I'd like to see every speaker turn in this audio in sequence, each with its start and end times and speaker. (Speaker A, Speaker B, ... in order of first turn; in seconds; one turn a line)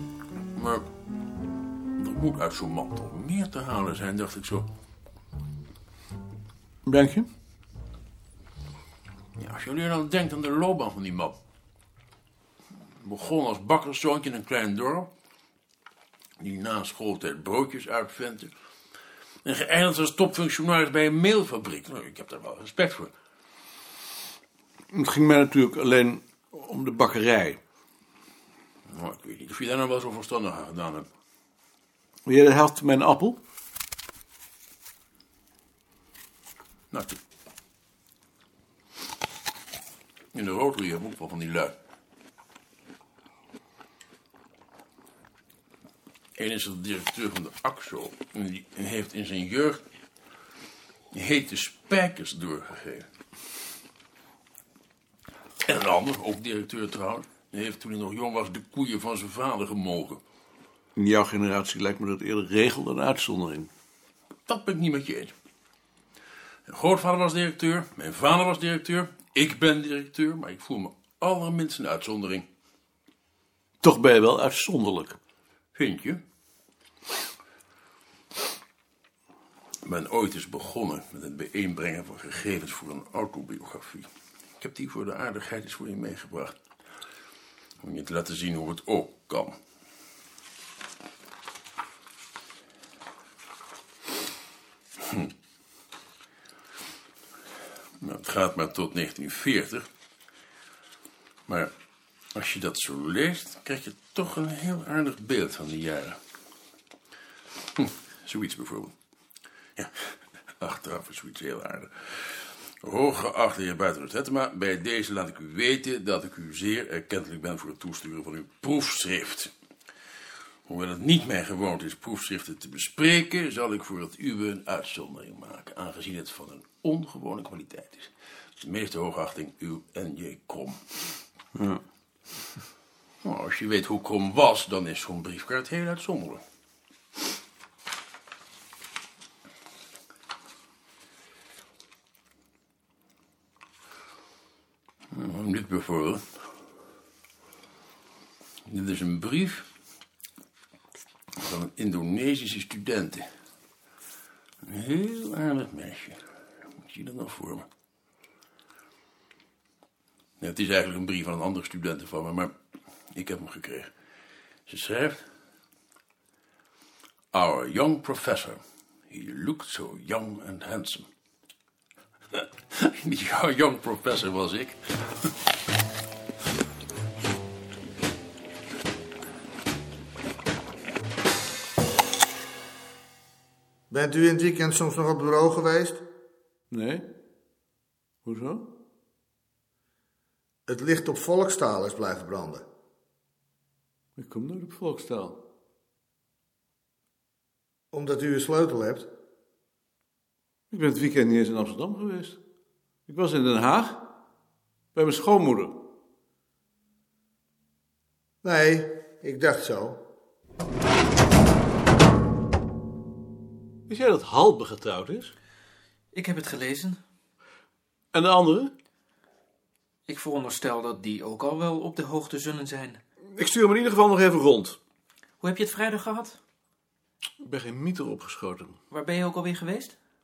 Speaker A: 0.5-0.8
Speaker A: 2.0-4.7
Speaker B: 6.8-7.3
Speaker A: 9.4-11.3
Speaker A: 13.0-15.1
Speaker A: 16.4-18.5
Speaker A: 19.4-23.1
Speaker B: 24.9-27.6
Speaker A: 28.9-31.1
Speaker B: 32.2-33.4
Speaker A: 36.9-37.2
Speaker A: 40.3-41.7
Speaker A: 46.4-49.8
Speaker A: 51.1-53.1
Speaker A: 55.6-60.2
Speaker B: 61.0-63.7
Speaker A: 64.5-65.3
Speaker A: 66.7-72.5
Speaker B: 73.8-75.2
Speaker A: 75.7-76.2
Speaker A: 79.8-84.1
Speaker A: 84.6-86.5
Speaker A: 87.8-89.5
Speaker A: 98.0-99.8
Speaker A: 102.3-106.2
Speaker A: 107.8-108.9
Speaker A: 110.6-119.5
Speaker A: 120.7-130.8
Speaker B: 131.6-131.8
Speaker A: 133.2-136.4
Speaker A: 145.1-146.2
Speaker A: 148.7-149.7
Speaker A: 151.4-153.2
Speaker A: 154.6-156.2
Speaker A: 156.8-157.7
Speaker A: 160.4-162.5
Speaker A: 163.1-163.9
Speaker A: 164.7-165.2
Speaker A: 167.3-171.1
Speaker A: 172.3-175.3
Speaker C: 183.9-186.0
Speaker B: 186.7-187.1
Speaker B: 188.2-188.7
Speaker C: 190.7-192.6
Speaker B: 194.2-195.4
Speaker C: 197.9-199.1
Speaker B: 200.7-202.4
Speaker B: 203.1-204.1
Speaker B: 204.9-205.8
Speaker C: 208.4-210.0
Speaker B: 213.9-215.3
Speaker D: 216.1-217.0
Speaker B: 218.1-218.7
Speaker D: 220.1-223.0
Speaker B: 223.3-224.8
Speaker D: 225.4-226.4
Speaker B: 227.4-228.8
Speaker D: 228.9-229.9